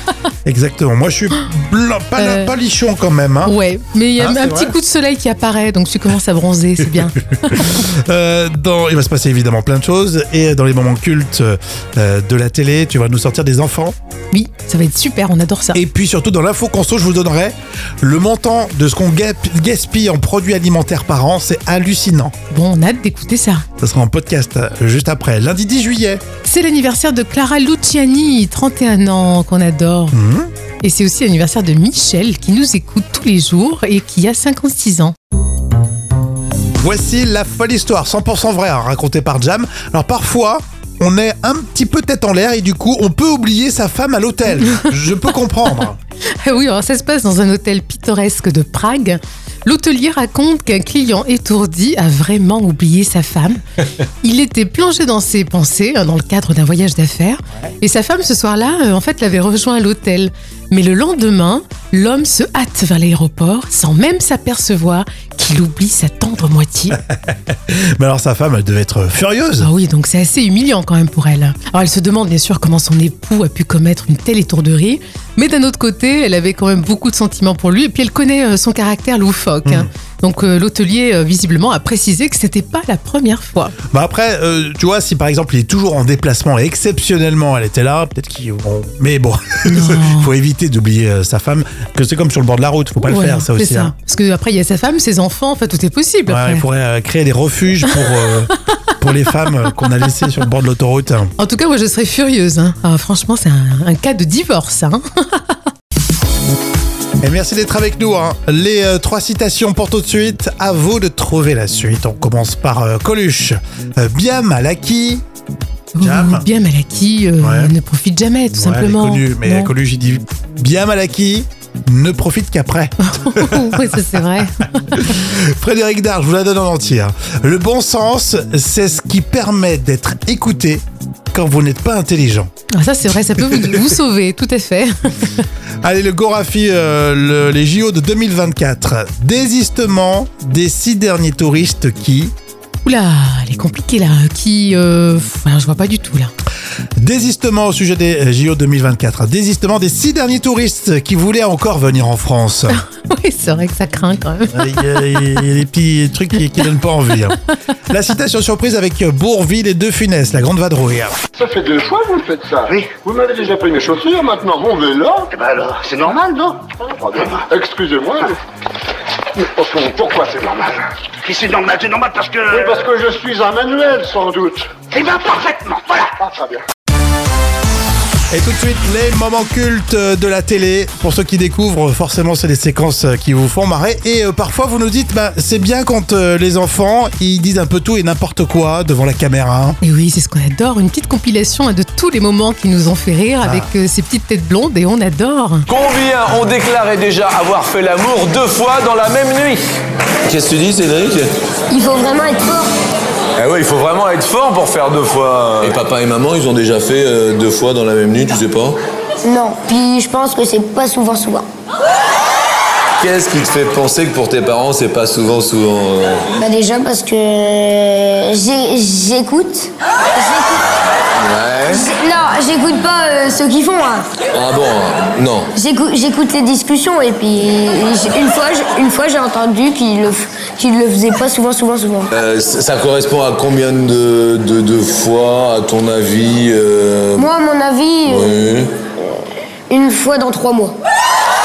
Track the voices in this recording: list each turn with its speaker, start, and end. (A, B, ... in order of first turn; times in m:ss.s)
0:00.4-0:03.5 A
0:02.2-0:02.5 B
0:03.4-0:07.8 B
0:04.2-0:04.7 A
0:07.0-0:13.9 A
0:14.3-0:15.8 B
0:15.7-0:22.3 A
0:22.5-0:23.6 B
0:23.8-0:26.2 A
0:26.4-0:30.2 B
0:30.1-0:30.5 A
0:30.8-0:35.1 B
0:36.8-0:46.0 A
0:46.4-0:53.6 B
0:54.2-1:07.0 B
1:06.9-1:09.7 A
1:09.6-1:23.8 B
1:23.8-1:33.9 A
1:29.7-1:30.3 B
1:33.0-1:36.6 B
1:36.3-1:41.3 A
1:37.9-1:38.6 B
1:41.4-1:45.5 B
1:47.2-1:55.2 A
1:55.9-1:59.7 B
1:56.0-1:56.5 A
1:57.4-1:57.7 A
1:58.5-2:04.0 A
2:03.0-2:05.0 B
2:04.6-2:10.8 A
2:11.3-2:12.5 A
2:12.7-2:15.5 B
2:13.4-2:13.8 A
2:15.8-2:22.3 A
2:22.8-2:26.3 B
2:27.0-2:32.8 A
2:32.7-2:35.4 B
2:34.5-2:41.1 A
2:41.4-2:45.3 C
2:45.4-2:46.6 D
2:46.8-2:48.4 C
2:49.4-2:50.8 C
2:51.2-2:52.5 D
2:52.4-2:54.9 C
2:54.9-2:56.0 D
2:56.1-2:56.6 C
2:58.3-3:09.8 A
3:09.8-3:15.7 B
3:13.4-3:13.7 A
3:15.7-3:19.7 E
3:20.2-3:21.3 F
3:21.7-3:22.7 G
3:23.4-3:25.8 E
3:25.6-3:28.8 F
3:29.2-3:31.5 G
3:33.0-3:36.3 F
3:36.3-3:40.8 G
3:41.2-3:41.9 F
3:41.7-3:44.1 G
3:44.3-3:45.5 F
3:45.5-3:52.1 G
3:52.1-3:57.3 F
3:57.1-4:00.8 G
3:58.0-3:58.7 F